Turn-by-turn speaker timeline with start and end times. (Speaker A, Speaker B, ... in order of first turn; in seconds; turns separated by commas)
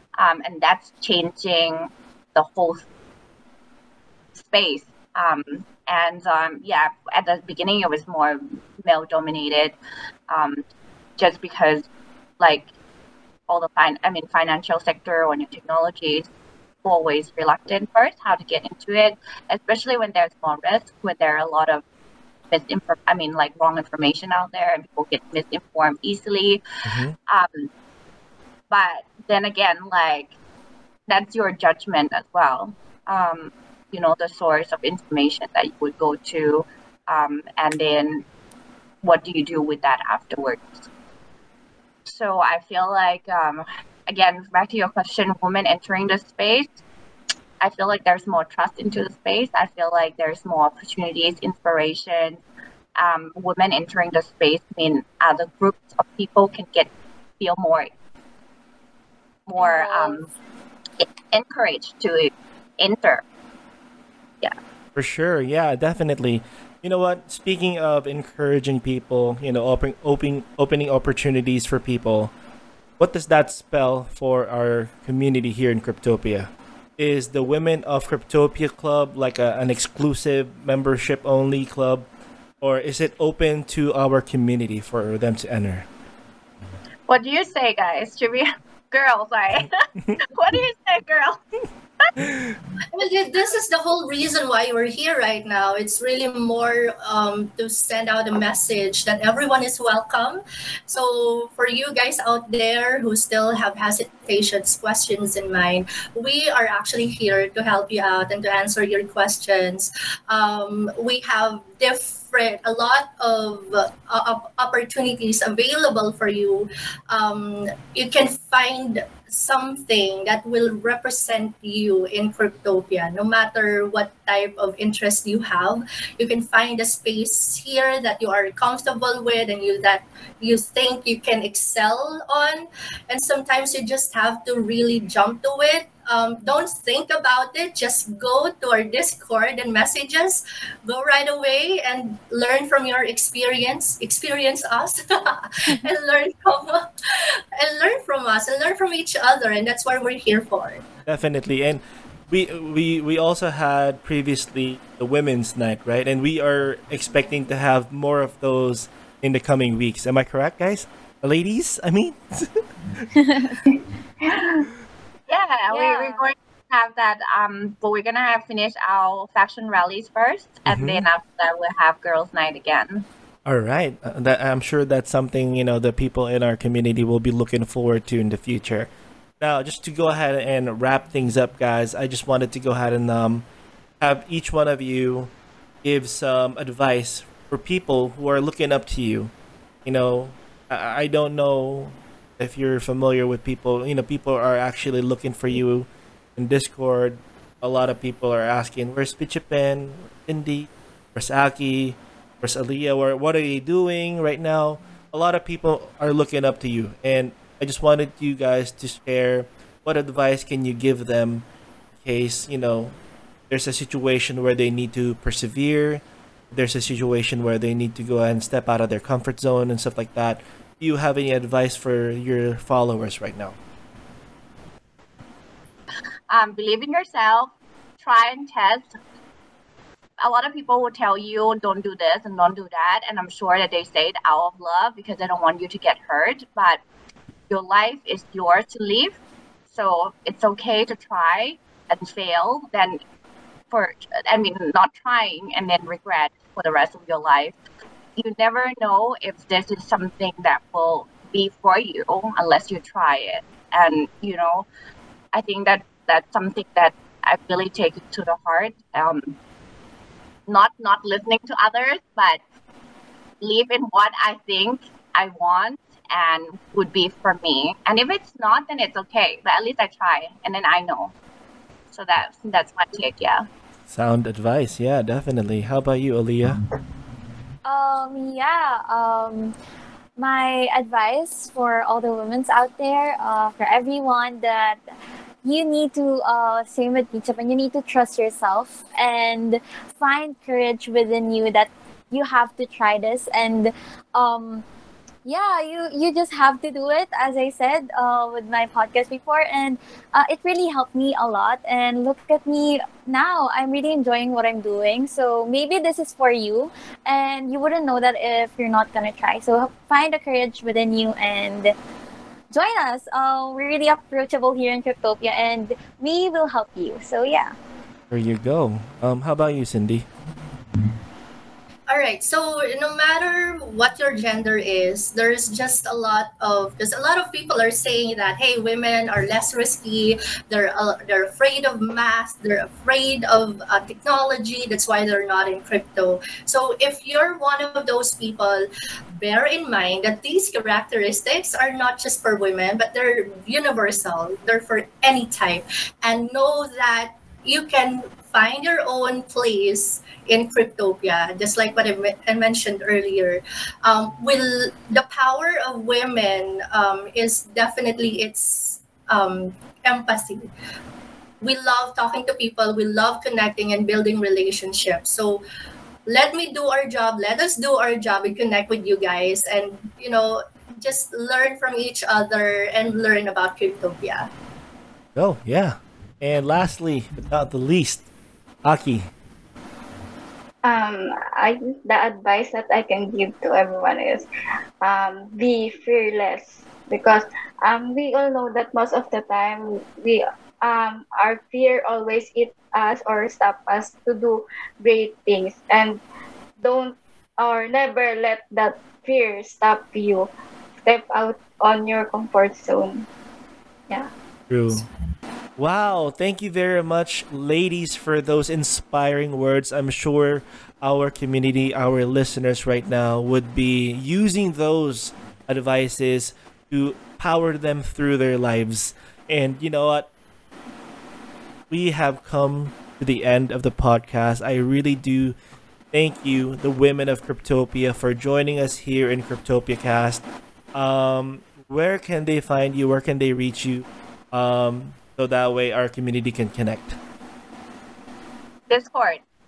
Speaker A: 0.2-2.8, Speaker A: 4.3-9.8, Speaker A: 10.3-10.6, Speaker A: 11.2-11.8, Speaker A: 12.4-12.7, Speaker A: 13.5-16.3, Speaker A: 16.8-21.8, Speaker A: 22.5-26.6, Speaker B: 26.9-27.1, Speaker A: 27.3-27.7, Speaker A: 28.7-30.3, Speaker A: 31.1-38.2, Speaker A: 39.0-40.9, Speaker A: 42.0-46.8, Speaker A: 47.6-52.4, Speaker A: 53.0-57.9, Speaker A: 59.5-60.3, Speaker C: 59.5-60.3, Speaker A: 61.0-63.2, Speaker B: 65.0-72.3, Speaker B: 73.0-82.1, Speaker B: 82.6-85.8, Speaker A: 87.1-91.4, Speaker B: 92.2-92.6, Speaker D: 92.9-150.8, Speaker B: 151.1-163.1, Speaker C: 163.2-163.5, Speaker E: 164.2-164.6, Speaker A: 165.3-173.1, Speaker C: 165.7-166.2, Speaker B: 170.7-171.0, Speaker B: 173.4-183.4, Speaker B: 184.0-185.3, Speaker B: 185.8-189.3, Speaker B: 189.8-211.4, Speaker B: 212.0-212.9, Speaker B: 213.5-223.6, Speaker A: 226.3-228.9, Speaker A: 230.2-236.8, Speaker A: 237.5-243.0, Speaker A: 243.7-247.5, Speaker A: 248.2-254.7, Speaker A: 255.3-259.4, Speaker A: 260.5-262.4, Speaker A: 263.4-271.1, Speaker A: 271.9-273.4, Speaker B: 273.9-276.6, Speaker C: 277.6-279.5, Speaker C: 280.2-284.8, Speaker C: 285.4-294.6, Speaker C: 295.2-311.7, Speaker C: 312.5-317.5, Speaker B: 318.1-320.1, Speaker D: 321.9-360.5, Speaker D: 361.4-365.4, Speaker D: 366.1-374.3, Speaker B: 375.1-378.0, Speaker B: 378.6-379.1, Speaker E: 380.6-384.2, Speaker E: 384.8-396.0, Speaker E: 396.6-400.3, Speaker E: 400.8-403.1, Speaker B: 404.5-404.8, Speaker B: 405.6-420.1, Speaker B: 421.7-425.3, Speaker B: 425.9-430.2, Speaker B: 430.7-437.0, Speaker A: 438.7-439.2